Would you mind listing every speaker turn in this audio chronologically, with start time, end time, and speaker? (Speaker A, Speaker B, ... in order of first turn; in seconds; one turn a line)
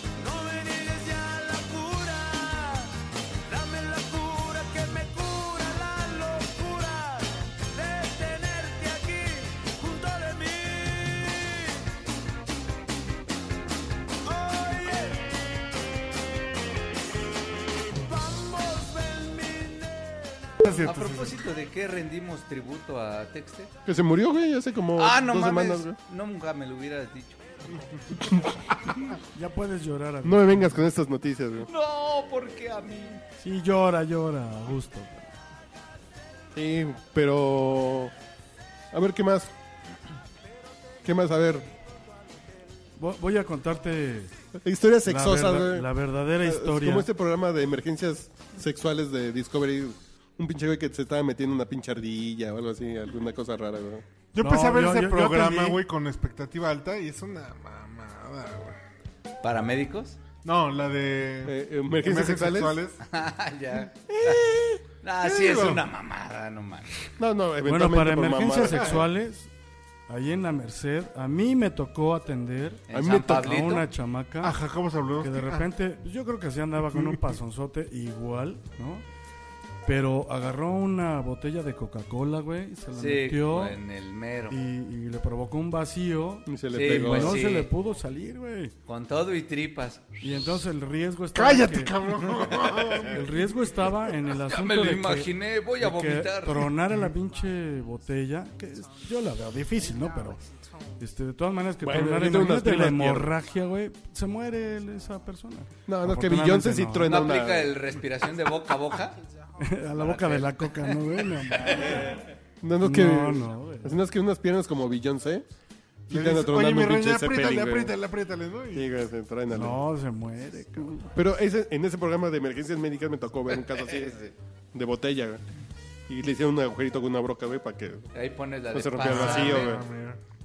Speaker A: 0.1-11.8
Speaker A: 14.2-15.4
Speaker A: 17.8-20.6
Speaker B: 20.6-21.4
Speaker C: 20.8-23.7
Speaker D: 23.9-26.0
Speaker C: 25.0-27.8
Speaker E: 29.3-30.8
Speaker D: 30.2-31.7
Speaker C: 31.7-33.2
Speaker E: 33.4-35.2
Speaker D: 36.5-38.1
Speaker D: 38.9-39.5
Speaker D: 41.0-41.7
Speaker E: 43.0-44.4
Speaker D: 44.6-54.0
Speaker E: 45.0-47.1
Speaker B: 54.3-58.8
Speaker E: 54.4-55.8
Speaker C: 59.4-60.2
Speaker B: 60.4-63.0
Speaker D: 61.5-62.8
Speaker C: 63.0-64.5
Speaker C: 65.0-67.1
Speaker B: 65.2-65.8
Speaker D: 67.2-69.0
Speaker E: 67.7-69.5
Speaker E: 70.1-72.8
Speaker C: 72.9-73.9
Speaker D: 72.9-73.6
Speaker E: 73.4-74.6
Speaker B: 74.4-75.7
Speaker E: 75.2-79.0
Speaker B: 76.9-77.2
Speaker E: 79.8-83.8
Speaker C: 83.0-84.6
Speaker E: 84.5-88.8
Speaker D: 86.5-87.5
Speaker C: 86.8-87.7
Speaker C: 88.9-90.2
Speaker E: 90.2-92.4
Speaker B: 91.3-93.5
Speaker E: 93.0-100.4
Speaker C: 94.5-96.7
Speaker E: 101.0-107.1
Speaker D: 101.8-103.3
Speaker D: 105.9-107.8
Speaker C: 107.0-109.2
Speaker E: 109.6-112.2
Speaker C: 110.0-112.2
Speaker D: 112.6-115.5
Speaker E: 112.8-114.0
Speaker D: 116.1-117.9
Speaker B: 116.1-118.9
Speaker D: 118.7-119.8
Speaker E: 119.5-121.0
Speaker D: 120.8-125.4
Speaker D: 126.1-128.1
Speaker C: 128.1-129.8
Speaker D: 128.7-129.9
Speaker B: 129.0-130.2